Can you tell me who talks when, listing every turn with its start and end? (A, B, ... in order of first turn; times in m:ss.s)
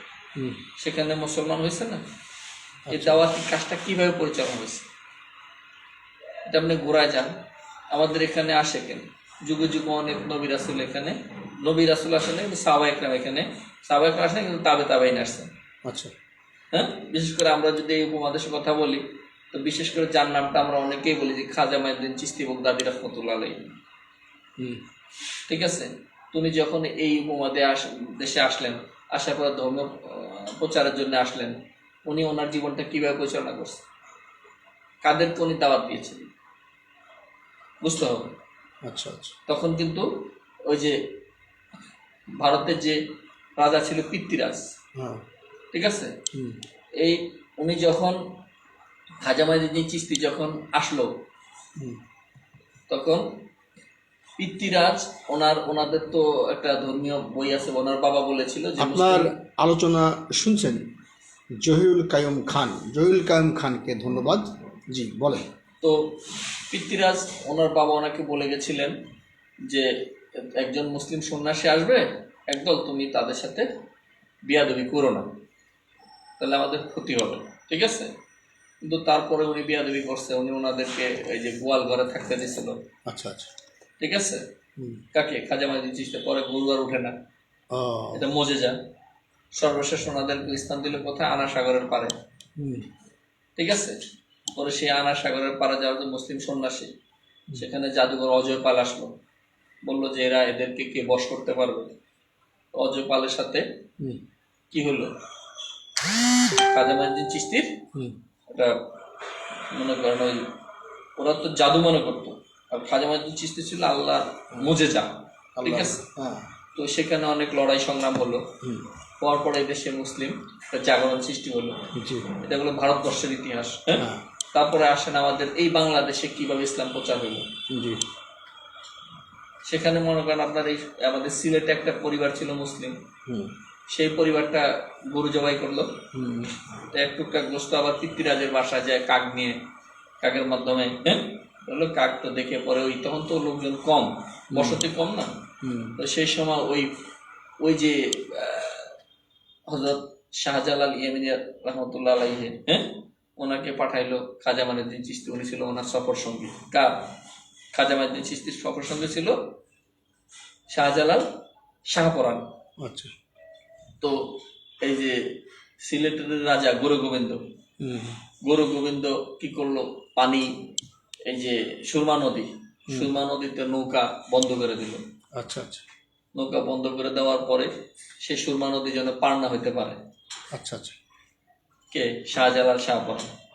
0:00.8-0:02.0 A
0:02.9-0:03.2 B
0:02.9-0:04.9 A
0:06.5-0:07.4 A
0:07.9-0:15.5 A
0:15.8-0:16.1 B
0:16.7-0:23.8 A
0:25.5-0:33.8 A
0:35.0-0:36.3 A
0:37.8-0:38.3 A
0:38.8-0:39.3 B
0:39.5-0:40.1 A
0:40.6-0:41.0 A
0:42.4-0:43.0 A
0:43.6-0:44.7 A
0:45.0-0:45.2 B
0:45.7-0:46.1 A
0:46.3-0:46.6 B
0:47.0-0:48.2 A
0:49.2-0:51.1 A
0:52.9-0:53.3 A
0:54.4-0:59.3 A
0:58.8-1:00.8 B
1:01.6-1:05.4 B
1:05.8-1:06.2 A
1:06.7-1:09.0 A
1:09.6-1:13.7 A
1:14.4-1:15.4 A
1:16.4-1:18.1 A
1:18.8-1:22.8 A
1:23.1-1:23.5 B
1:24.0-1:24.4 A
1:25.1-1:27.2 A
1:27.7-1:28.2 B
1:28.1-1:28.8 A
1:29.5-1:32.1 A
1:32.6-1:32.8 B
1:33.6-1:34.0 A
1:34.5-1:36.9 A
1:37.5-1:39.2 A
1:39.8-1:41.9 A
1:42.7-1:43.6 A
1:44.7-1:45.1 A
1:46.7-1:47.8 A
1:48.5-1:48.8 A
1:49.7-1:50.5 A
1:51.2-1:56.0 A
1:55.6-1:56.5 B
1:56.8-1:58.5 A
1:59.2-2:07.5 A
2:01.9-2:02.3 B
2:04.0-2:04.2 B
2:07.7-2:08.0 B
2:09.6-2:13.0 A
2:13.3-2:13.5 B
2:13.9-2:16.0 A
2:16.1-2:16.5 B
2:16.9-2:19.6 A
2:20.2-2:25.4 A
2:24.5-2:24.8 B
2:25.6-2:26.0 B
2:26.0-2:26.9 A
2:27.6-2:28.9 A
2:29.7-2:37.1 A
2:37.7-2:39.4 A
2:40.7-2:41.2 A
2:41.9-2:42.4 A
2:42.8-2:43.1 B
2:44.0-2:47.4 A
2:47.8-2:48.2 B
2:48.4-2:50.6 A
2:51.2-2:55.0 A
2:55.3-2:55.8 B
2:56.3-2:57.7 A
2:58.2-3:00.0 A
3:00.5-3:00.9 B
3:01.9-3:03.3 A